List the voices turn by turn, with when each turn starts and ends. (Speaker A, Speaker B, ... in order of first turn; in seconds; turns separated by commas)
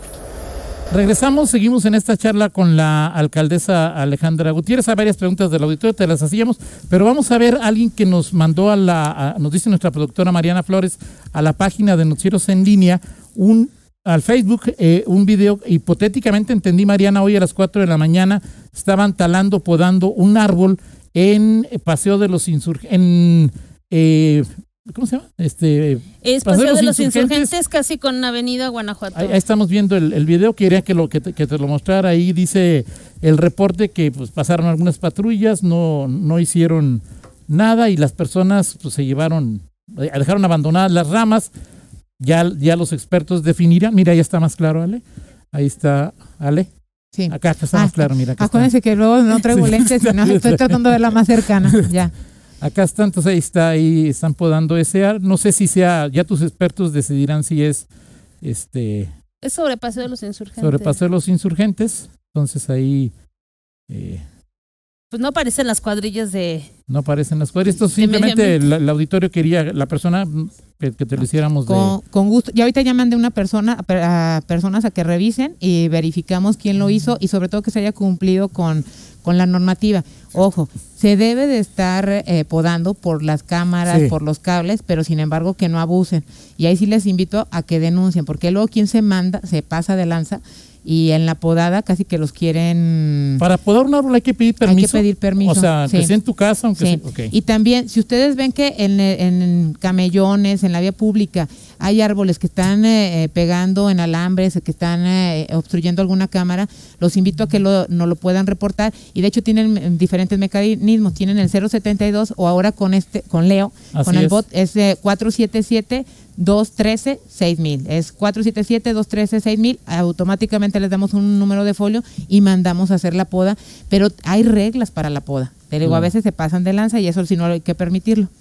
Speaker A: 0.9-27.5, Speaker B: 26.2-29.4, Speaker A: 29.1-41.5, Speaker A: 42.2-45.0, Speaker A: 45.5-46.7, Speaker C: 47.1-52.1, Speaker A: 47.3-48.7, Speaker A: 49.5-50.8, Speaker A: 52.6-57.9, Speaker A: 58.4-59.1, Speaker B: 59.4-61.0, Speaker A: 60.6-63.1, Speaker A: 63.9-64.2, Speaker B: 65.1-66.7, Speaker A: 66.9-71.9, Speaker B: 68.0-68.6, Speaker C: 71.7-93.4, Speaker A: 83.9-84.1, Speaker A: 93.4-97.3, Speaker C: 94.6-96.1, Speaker C: 96.8-128.3, Speaker A: 114.0-114.4, Speaker A: 125.8-126.1